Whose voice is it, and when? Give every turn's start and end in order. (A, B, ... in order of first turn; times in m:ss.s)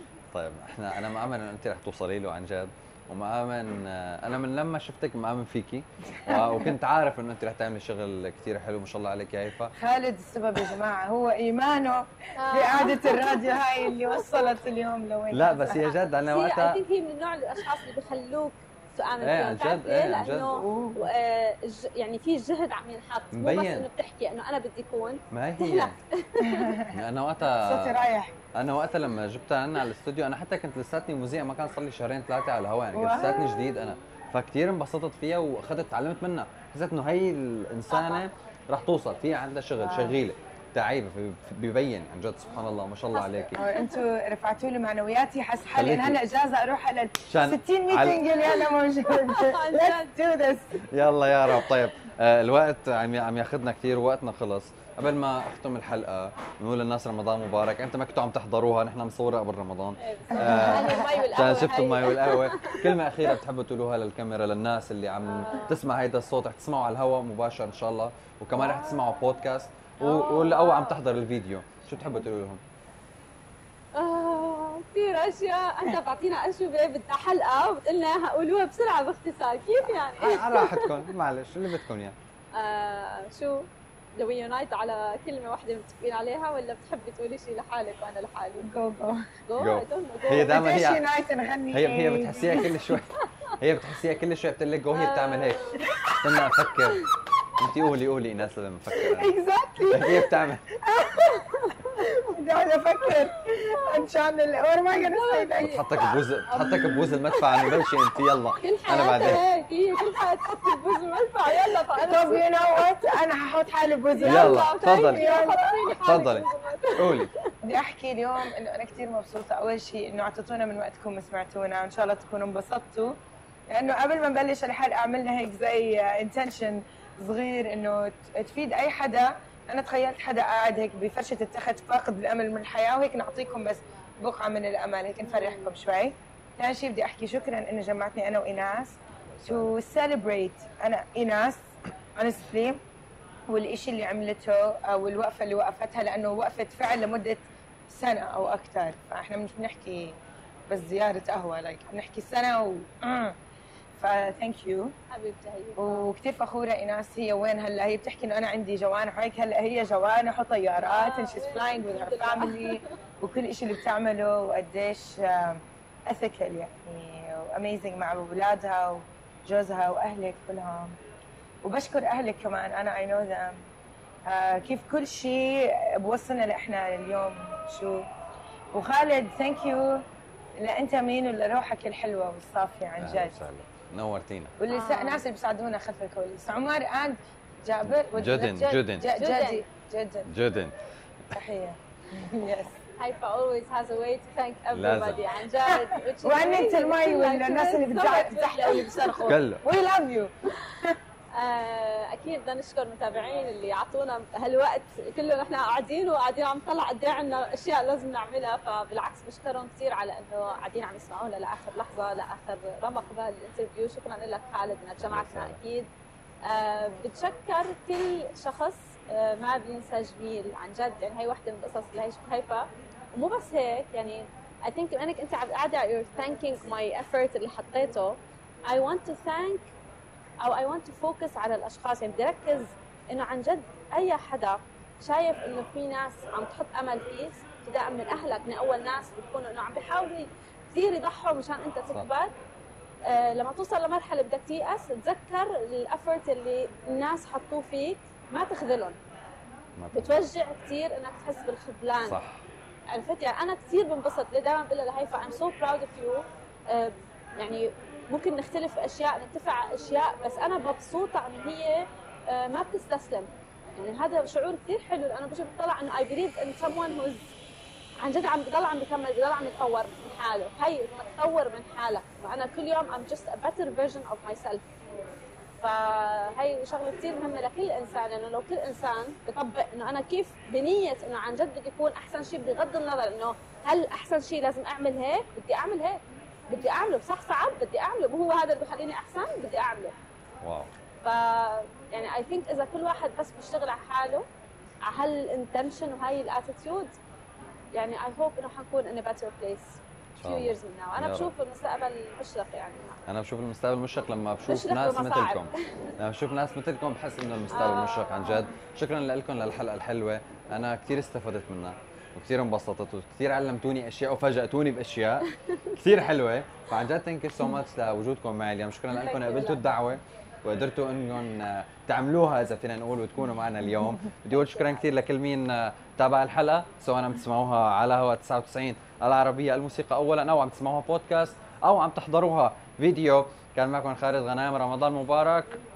0:00.3-0:09.7 A
0:06.2-0:06.8 B
0:09.7-0:15.8 B
0:12.4-0:14.6 C
0:15.3-0:16.8 A
0:16.3-0:26.8 C
0:19.2-0:20.6 A
0:20.6-0:21.1 B
0:23.3-0:23.9 A
0:25.3-0:26.0 A
0:26.4-0:27.0 B
0:26.9-0:28.0 A
0:27.6-0:28.4 B
0:28.5-0:43.6 A
0:32.9-0:33.7 B
0:37.9-0:38.2 C
0:39.8-0:40.2 B
0:42.5-0:44.0 C
0:43.5-0:50.8 B
0:45.7-0:46.2 A
0:47.3-0:48.2 A
0:48.1-0:50.1 C
0:50.9-1:12.6 A
1:00.0-1:02.9 C
1:00.3-1:01.5 B
1:05.2-1:05.8 C
1:08.6-1:09.1 C
1:10.0-1:11.0 C
1:14.0-1:21.1 C
1:20.2-1:22.2 A
1:22.5-1:28.7 C
1:28.6-1:29.3 B
1:29.5-1:30.6 C
1:29.6-1:31.0 A
1:30.3-1:32.8 B
1:31.7-1:37.0 A
1:34.9-1:35.9 C
1:35.8-1:36.1 B
1:37.6-1:39.3 A
1:38.9-1:46.1 B
1:39.9-1:40.7 A
1:41.0-1:42.1 C
1:43.1-1:44.1 C
1:45.0-1:48.0 C
1:45.6-1:49.4 A
1:46.7-1:47.0 B
1:48.6-1:53.2 C
1:51.5-1:56.0 B
1:54.1-1:57.5 C
1:54.2-1:57.3 A
1:57.6-2:03.1 B
2:03.7-2:21.6 B
2:15.3-2:15.7 C
2:19.3-2:19.7 A
2:22.2-2:22.8 B
2:23.5-2:30.2 B
2:30.7-2:33.4 B
2:34.0-2:35.0 B
2:35.1-2:36.1 C
2:35.8-2:51.0 B
2:40.9-2:42.9 C
2:51.6-2:53.7 B
2:54.3-2:58.1 B
2:58.7-3:00.0 B
3:00.6-3:03.4 B
3:03.0-3:04.6 A
3:04.6-3:10.3 B
3:04.7-3:05.2 C
3:08.1-3:09.1 A
3:09.0-3:09.6 C
3:10.3-3:10.7 A
3:11.3-3:12.8 B
3:13.0-3:19.3 C
3:14.7-3:15.2 A
3:15.6-3:21.0 B
3:19.3-3:19.6 A
3:21.4-3:35.9 C
3:35.0-3:35.6 A
3:36.4-3:49.7 C
3:50.4-4:02.3 C
4:03.1-4:09.0 C
4:09.8-4:10.2 A
4:09.9-4:12.2 C
4:12.0-4:12.4 A
4:12.9-4:27.3 C
4:28.0-4:34.6 C
4:35.6-4:49.9 C
4:50.4-4:50.7 A
4:51.0-4:54.3 C
4:54.8-4:56.9 C
4:57.7-5:03.0 C
5:00.2-5:01.3 A
5:03.1-5:35.5 A
5:04.5-5:05.9 C
5:07.5-5:08.5 C
5:15.3-5:15.7 C
5:18.9-5:19.7 C
5:24.4-5:24.7 C